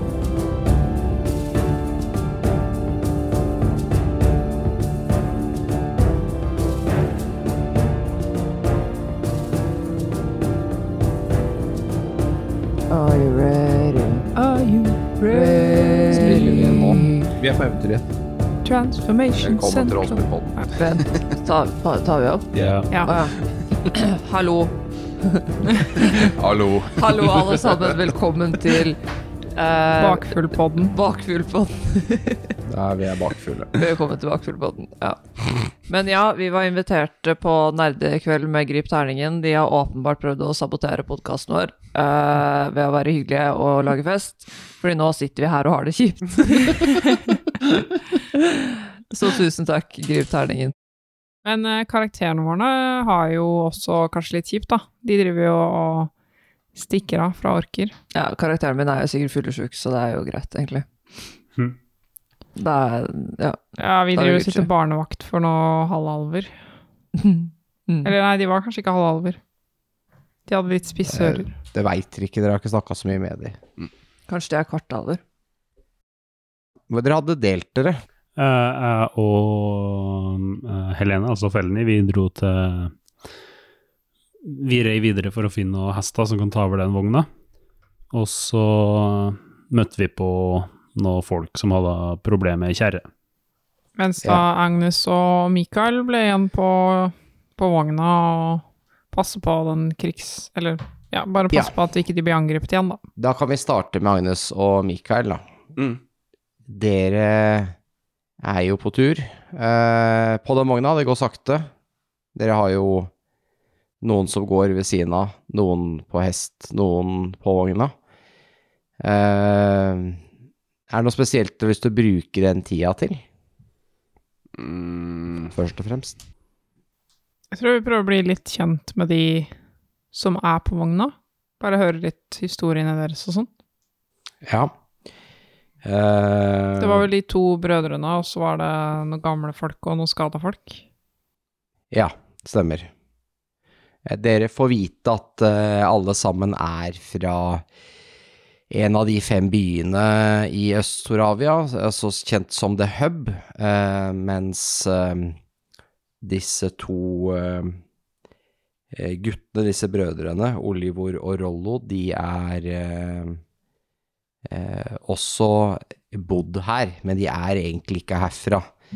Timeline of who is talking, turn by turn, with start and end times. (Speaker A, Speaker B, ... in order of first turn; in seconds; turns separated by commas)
Speaker A: 12.9-14.3, Speaker B: 14.3-17.0, Speaker A: 15.3-17.3, Speaker C: 16.1-17.0, Speaker D: 17.3-18.1, Speaker B: 18.6-20.8, Speaker C: 19.4-20.7, Speaker A: 20.8-26.3, Speaker D: 22.5-22.8, Speaker E: 22.6-22.9, Speaker B: 22.9-23.1, Speaker D: 26.1-28.0, Speaker A: 26.9-29.0, Speaker B: 29.6-30.9, Speaker A: 29.9-32.6, Speaker C: 32.7-33.7, Speaker A: 33.7-50.7, Speaker B: 51.4-56.1, Speaker B: 56.7-57.9, Speaker A: 58.1-61.3, Speaker A: 62.5-64.7, Speaker B: 63.8-66.5, Speaker A: 67.2-68.1, Speaker B: 68.0-69.4, Speaker B: 70.5-71.5, Speaker C: 71.1-73.6, Speaker A: 74.3-75.2, Speaker C: 76.9-78.0, Speaker E: 78.3-82.9, Speaker E: 84.4-87.3, Speaker E: 88.1-93.0, Speaker B: 94.0-103.0, Speaker C: 101.5-101.8, Speaker C: 103.2-105.4, Speaker C: 106.7-107.7, Speaker C: 108.4-111.7, Speaker C: 112.3-113.1, Speaker C: 114.0-117.9, Speaker C: 119.0-120.2, Speaker C: 120.9-123.2, Speaker D: 124.6-125.5, Speaker C: 125.5-126.2, Speaker B: 127.5-129.5, Speaker B: 130.1-133.5, Speaker C: 134.4-134.7, Speaker C: 135.8-137.1, Speaker B: 136.8-140.8, Speaker C: 141.9-142.9, Speaker C: 144.1-147.6, Speaker C: 148.7-155.4, Speaker C: 156.2-157.8, Speaker C: 158.9-163.4, Speaker C: 164.4-168.7